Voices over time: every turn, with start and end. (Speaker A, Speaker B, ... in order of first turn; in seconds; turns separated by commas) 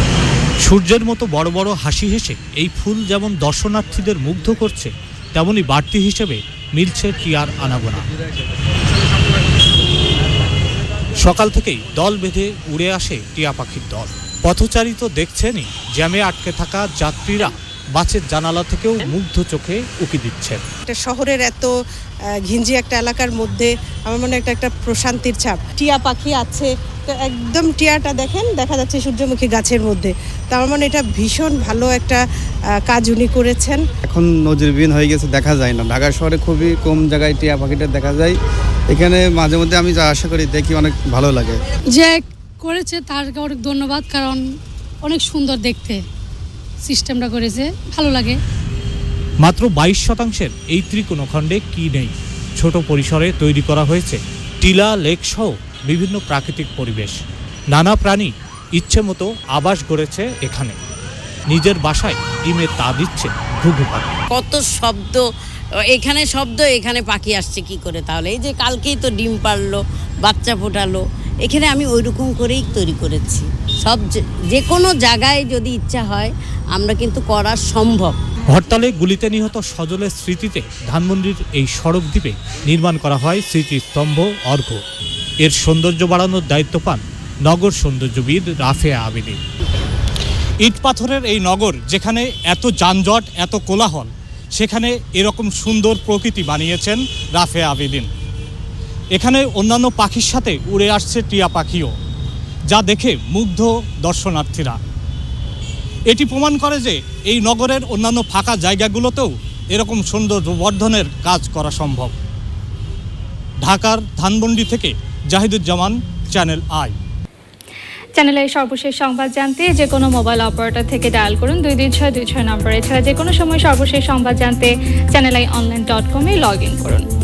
Speaker A: 0.6-8.1, Speaker A: 11.2-20.6, Speaker B: 20.9-21.7, Speaker B: 22.4-32.2, Speaker B: 32.8-33.8, Speaker C: 34.0-38.4, Speaker C: 38.9-41.6, Speaker D: 41.9-44.4, Speaker D: 45.0-46.0, Speaker D: 46.8-48.4, Speaker A: 49.4-57.2, Speaker A: 57.7-60.8, Speaker A: 61.5-64.1, Speaker E: 64.3-65.2, Speaker E: 65.9-78.1, Speaker A: 78.5-84.8, Speaker A: 85.4-89.4, Speaker A: 90.6-98.1, Speaker A: 99.2-101.9, Speaker A: 102.7-104.8, Speaker A: 106.1-112.1, Speaker A: 113.6-116.9, Speaker F: 118.2-127.1